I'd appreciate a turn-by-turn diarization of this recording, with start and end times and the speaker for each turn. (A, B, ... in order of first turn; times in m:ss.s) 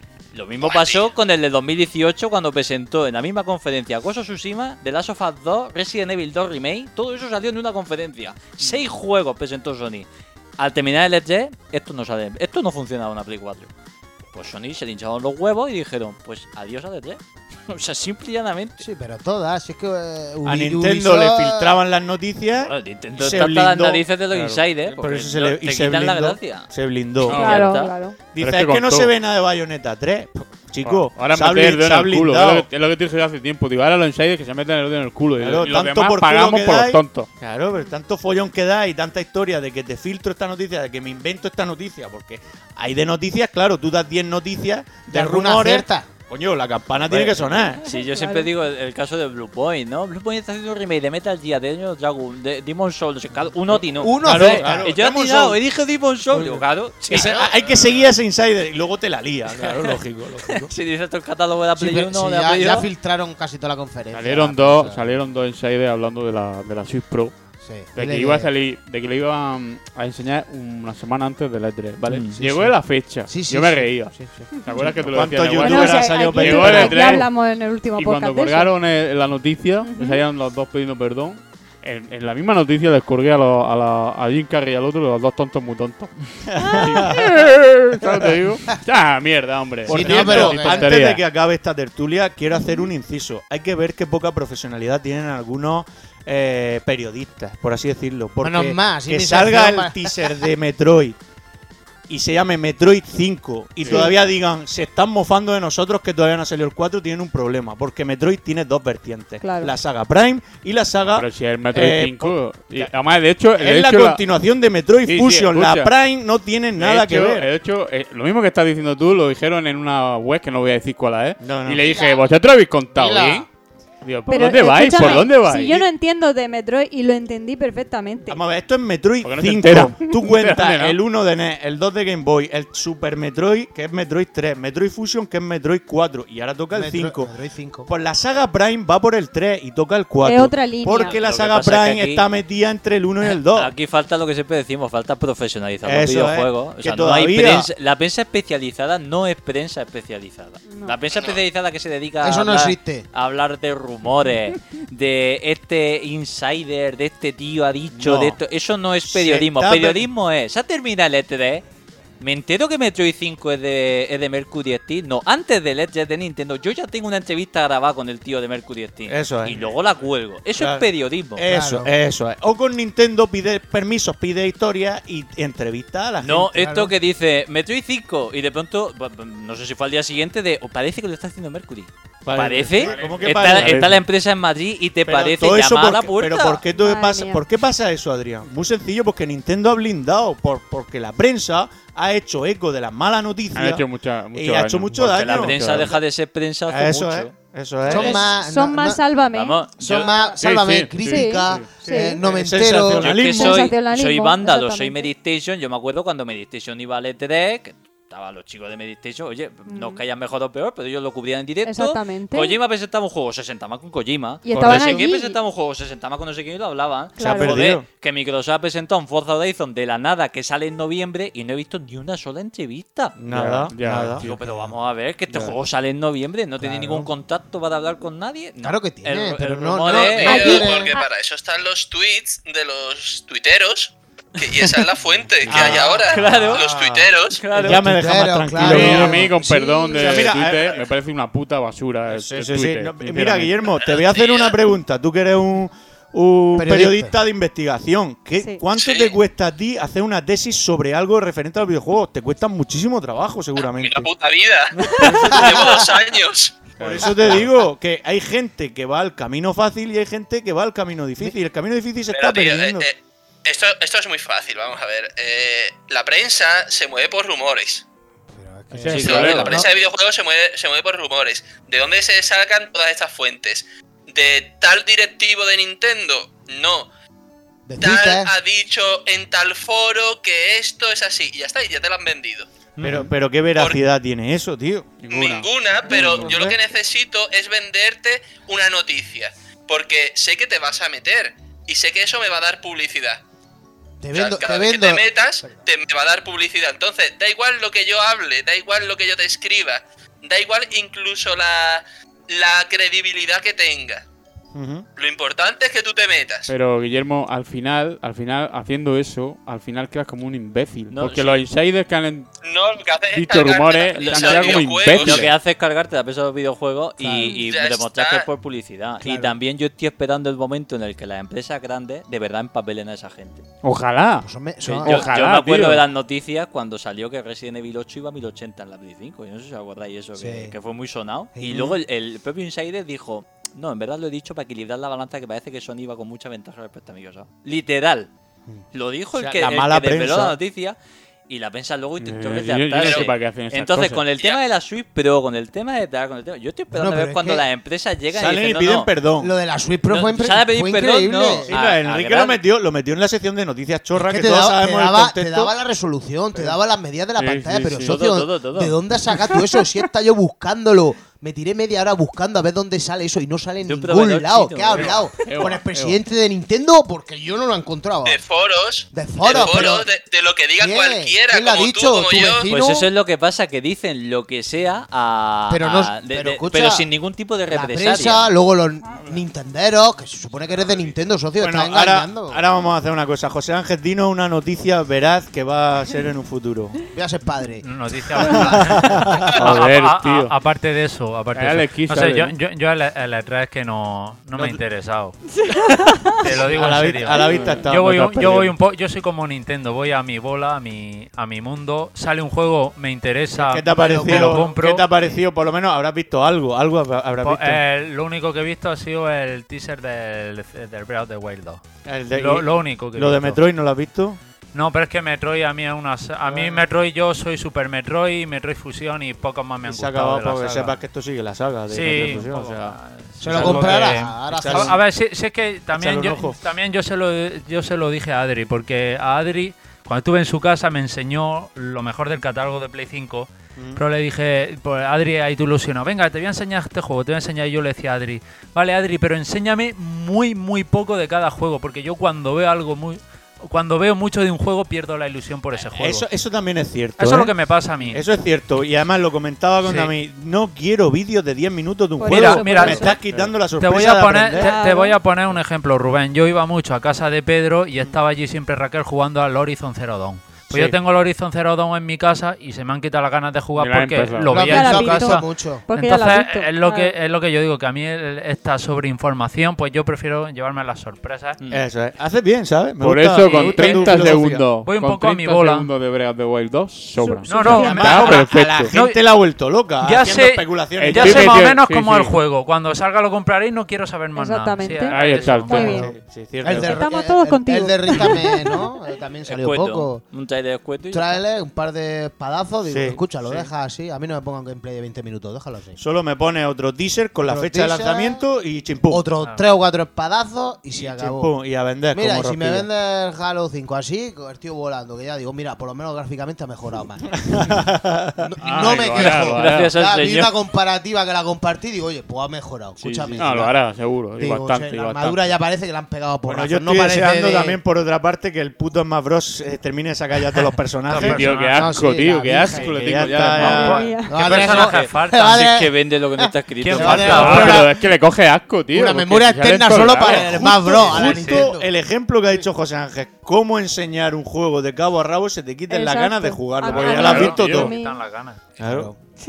0:00.3-0:10.1 A
0:00.6-0:01.1 B
0:10.6-0:13.7 A
0:14.3-0:18.8 A
0:18.8-0:21.8 C
0:20.4-0:24.1 D
0:22.6-0:26.7 A
0:24.3-0:24.6 E
0:24.8-0:27.6 D
0:27.2-0:28.0 A
0:27.3-0:27.6 E
0:27.3-0:28.2 F
0:28.3-0:32.7 D
0:28.4-0:29.1 E
0:30.8-0:37.3 E
0:35.4-0:47.8 D
0:45.1-0:46.1 C
0:47.0-0:58.0 A
0:47.8-0:48.5 F
0:53.7-0:55.0 C
0:54.2-0:55.6 D
0:56.3-0:57.4 C
0:57.1-1:00.7 D
0:59.6-1:02.9 A
1:01.8-1:05.1 C
1:04.1-1:07.3 E
1:07.6-1:08.5 C
1:07.9-1:17.3 E
1:12.1-1:12.4 A
1:12.3-1:15.0 C
1:15.0-1:17.2 D
1:15.6-1:18.7 F
1:18.0-1:26.1 E
1:19.8-1:20.2 F
1:26.6-1:27.2 D
1:26.7-1:31.2 E
1:29.8-1:41.2 D
1:29.9-1:30.9 C
1:38.4-1:40.1 C
1:42.1-1:52.9 D
1:43.8-1:44.1 C
1:49.4-1:49.7 F
1:51.1-1:54.2 E
1:53.5-1:57.5 D
1:55.0-1:55.9 E
1:56.8-2:03.4 E
2:01.4-2:02.0 D
2:01.8-2:02.4 C
2:02.9-2:03.4 C
2:04.0-2:05.8 E
2:04.3-2:08.4 F
2:08.3-2:17.3 D
2:09.2-2:11.0 E
2:16.7-2:17.9 C
2:17.8-2:23.7 D
2:20.2-2:21.2 F
2:21.0-2:22.2 A
2:23.3-2:41.6 A
2:25.8-2:27.7 D
2:30.7-2:31.0 F
2:31.0-2:31.4 B
2:32.2-2:33.1 C
2:37.9-2:38.4 D
2:39.1-2:40.1 D
2:42.2-2:51.4 A
2:49.0-2:49.8 D
2:50.5-2:56.5 D
2:51.5-2:51.9 C
2:56.2-3:06.6 A
2:56.5-2:56.9 C
3:02.2-3:04.0 D
3:02.8-3:04.0 E
3:05.0-3:15.8 D
3:06.7-3:07.4 F
3:13.5-3:15.9 E
3:14.9-3:15.3 C
3:15.0-3:17.3 A
3:16.7-3:18.2 D
3:17.9-3:18.3 A
3:17.9-3:19.1 C
3:18.2-3:22.2 F
3:19.3-3:20.1 A
3:19.8-3:23.1 C
3:20.4-3:21.7 E
3:22.3-3:23.6 D
3:22.6-3:43.2 A
3:23.3-3:25.1 F
3:29.7-3:30.0 F
3:31.6-3:32.6 F
3:34.4-3:35.4 F
3:34.5-3:35.0 D
3:37.2-3:37.7 F
3:37.2-3:37.8 D
3:43.2-3:44.2 D
3:43.3-3:44.3 E
3:44.2-3:50.7 A
3:44.2-3:44.8 C
3:45.3-3:45.5 E
3:46.6-3:47.1 C
3:48.6-3:50.9 C
3:49.8-3:57.4 B
3:50.2-3:51.0 F
3:54.4-3:54.8 A
3:55.4-3:59.3 D
3:55.5-3:56.7 A
3:55.5-3:56.5 E
3:57.3-3:58.0 A
3:57.5-3:59.4 C
3:58.5-4:03.5 E
3:59.4-3:59.9 F
3:59.9-4:00.8 D
4:02.1-4:14.1 D
4:03.7-4:04.6 B
4:06.5-4:07.1 C
4:08.7-4:09.2 B
4:13.6-4:16.7 B
4:15.0-4:15.5 E
4:15.2-4:15.9 C
4:16.8-4:17.4 E
4:16.8-4:22.9 D
4:22.1-4:27.8 B
4:28.3-4:29.7 C
4:28.7-4:29.6 E
4:28.9-4:29.6 A
4:29.0-4:36.9 B
4:37.7-4:38.3 C
4:37.8-4:42.5 B
4:42.8-4:43.1 E
4:42.8-4:45.4 D
4:43.6-4:43.8 B
4:45.0-4:45.5 E
4:45.1-4:53.2 B
4:45.9-4:46.7 C
4:54.0-4:55.6 C
4:54.1-5:04.0 B
5:04.5-5:04.8 D
5:05.0-5:06.5 B
5:06.5-5:12.3 E
5:10.9-5:11.4 A
5:12.4-5:15.3 B
5:13.1-5:15.4 E
5:14.0-5:23.4 A
5:17.0-5:17.4 C
5:17.4-5:18.3 B
5:19.0-5:19.4 C
5:23.6-5:25.8 E
5:24.2-5:25.1 C
5:24.6-5:38.1 A
5:30.1-5:30.5 C
5:31.3-5:31.8 C
5:38.7-5:40.8 A
5:39.1-5:40.4 D
5:41.3-5:48.9 A
5:42.0-5:44.0 E
5:42.8-5:43.1 B
5:46.7-5:47.5 C
5:48.1-5:49.3 D
5:49.2-5:51.5 C
5:49.9-5:52.4 A
5:51.5-5:55.5 D
5:54.0-6:08.2 C
5:57.2-5:57.9 E
5:57.8-5:58.8 A
6:03.6-6:05.5 A
6:04.8-6:06.0 E
6:08.0-6:12.5 B
6:08.9-6:09.9 C
6:10.6-6:12.9 C
6:12.4-6:18.3 A
6:15.5-6:16.9 C
6:17.5-6:22.4 C
6:21.4-6:26.8 D
6:26.9-6:29.3 C
6:27.6-6:35.2 G
6:28.8-6:29.0 D
6:29.3-6:30.3 E
6:31.3-6:32.3 E
6:35.7-6:38.5 D
6:35.7-6:36.0 F
6:36.2-6:44.9 G
6:37.2-6:38.5 E
6:43.3-6:47.6 D
6:43.7-6:44.6 C
6:47.2-6:53.4 G
6:51.8-6:54.2 D
6:54.5-7:00.8 G
6:56.2-6:56.7 D
6:59.6-7:04.8 D
7:01.7-7:26.0 G
7:03.2-7:04.8 C
7:05.7-7:06.4 D
7:13.6-7:13.8 D
7:25.7-7:34.6 D
7:27.0-7:28.0 G
7:29.6-7:29.9 G
7:32.0-7:33.0 F
7:32.0-7:32.9 G
7:33.0-7:33.3 E
7:33.6-7:51.4 G
7:34.3-7:35.0 F
7:40.5-7:40.8 D
7:43.6-7:44.4 E
7:44.3-7:45.6 C
7:44.4-7:46.9 F
7:51.4-7:51.6 A
7:51.5-7:54.5 D
7:52.8-7:58.7 E
7:53.2-7:55.7 G
7:57.0-7:58.1 F
7:57.3-7:59.0 G
7:57.6-8:01.4 D
7:59.8-8:05.8 G
8:00.8-8:02.1 E
8:04.2-8:05.8 F
8:04.9-8:05.8 E
8:05.6-8:06.9 D
8:05.7-8:10.1 C
8:06.5-8:08.6 F
8:09.2-8:11.2 A
8:10.9-8:15.8 C
8:12.6-8:13.0 D
8:15.8-8:19.0 D
8:17.2-8:18.2 C
8:18.9-8:21.3 C
8:19.2-8:19.5 G
8:20.8-8:22.7 D
8:21.9-8:27.6 C
8:27.2-8:28.3 D
8:28.2-8:37.6 C
8:28.4-8:29.7 E
8:29.0-8:30.4 A
8:32.8-8:35.3 E
8:36.2-8:41.3 D
8:40.9-8:43.7 E
8:40.9-8:47.8 C
8:41.0-8:41.7 G
8:42.7-8:43.9 D
8:43.4-8:44.2 F
8:43.5-8:45.5 G
8:44.3-8:47.6 A
8:46.6-8:47.5 G
8:47.1-8:51.1 E
8:48.7-8:51.7 C
8:49.8-8:57.7 D
8:51.1-8:51.5 G
8:55.7-8:58.0 F
8:56.7-8:57.7 E
8:57.0-8:58.5 G
8:58.6-8:58.9 D
8:58.6-8:58.9 C